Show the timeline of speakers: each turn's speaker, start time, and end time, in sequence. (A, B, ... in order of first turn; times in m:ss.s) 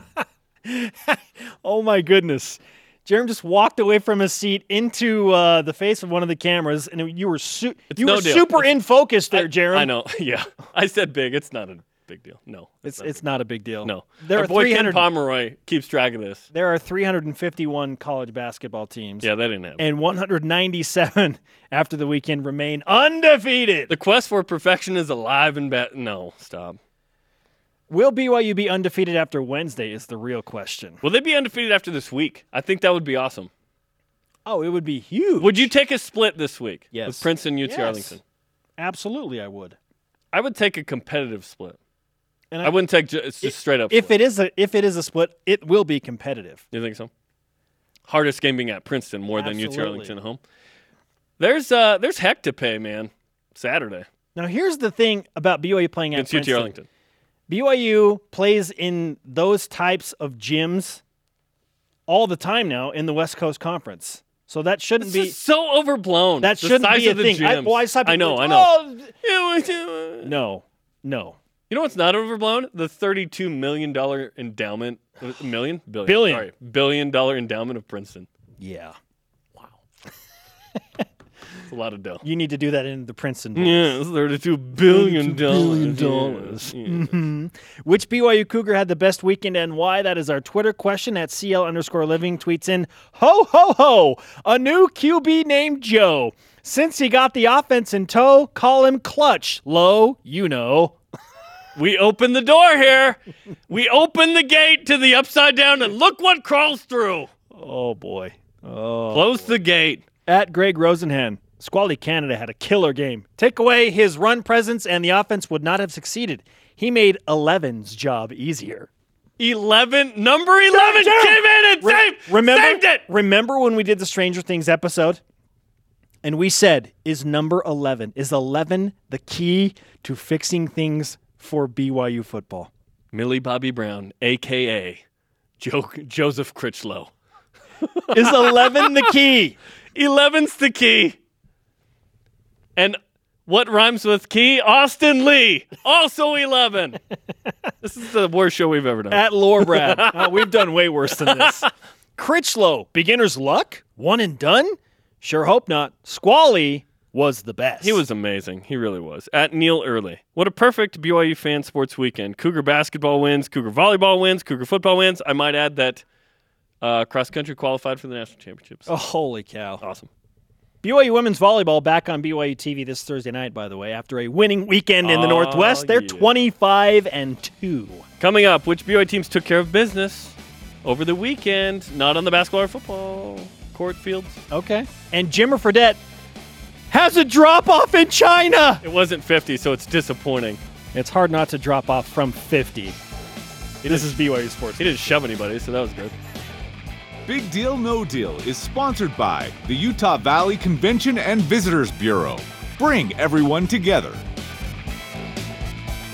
0:00.6-0:09.9 A
0:07.9-0:08.7 B
0:09.3-0:13.2 B
0:12.8-0:15.0 A
0:13.8-0:16.4 B
0:16.5-0:23.9 A
0:19.2-0:19.8 B
0:23.9-0:26.8 B
0:27.9-0:31.0 A
0:31.0-0:33.5 B
0:34.4-0:35.7 A
0:35.4-0:38.2 B
0:36.9-0:38.1 A
0:38.8-0:39.8 A
0:40.3-0:41.8 B
0:42.5-0:42.8 A
0:42.6-0:44.1 B
0:43.4-0:46.6 A
0:46.7-0:47.1 B
0:48.1-0:50.4 B
0:49.3-0:50.1 A
0:51.4-0:54.0 B
0:54.3-0:56.7 A
0:56.1-0:56.8 B
0:57.5-1:01.0 A
1:02.1-1:05.3 A
1:05.0-1:10.3 B
1:06.4-1:09.1 A
1:10.2-1:11.4 A
1:11.7-1:18.3 B
1:16.0-1:16.4 A
1:18.6-1:19.0 A
1:21.7-1:22.2 B
1:22.2-1:24.0 A
1:23.6-1:27.2 B
1:24.8-1:41.0 A
1:41.8-1:47.3 B
1:47.5-1:49.6 A
1:49.1-1:50.0 B
1:50.3-1:58.9 A
1:59.4-2:03.0 B
2:00.7-2:05.2 A
2:06.2-2:12.7 A
2:13.1-2:15.0 B
2:15.6-2:17.1 B
2:17.8-2:19.1 B
2:18.1-2:19.6 A
2:19.9-2:21.2 B
2:22.8-2:27.0 B
2:27.8-2:30.6 B
2:29.1-2:38.0 A
2:31.2-2:31.6 B
2:37.8-2:46.0 B
2:46.8-2:48.9 B
2:48.9-2:49.8 A
2:49.8-2:50.1 B
2:50.8-2:58.0 A
2:55.0-2:56.3 B
2:58.2-3:04.4 B
3:04.5-3:06.0 A
3:06.9-3:08.8 A
3:08.8-3:10.6 B
3:10.9-3:13.0 A
3:13.8-3:14.2 B
3:13.8-3:15.0 A
3:14.8-3:16.1 B
3:17.2-3:24.2 C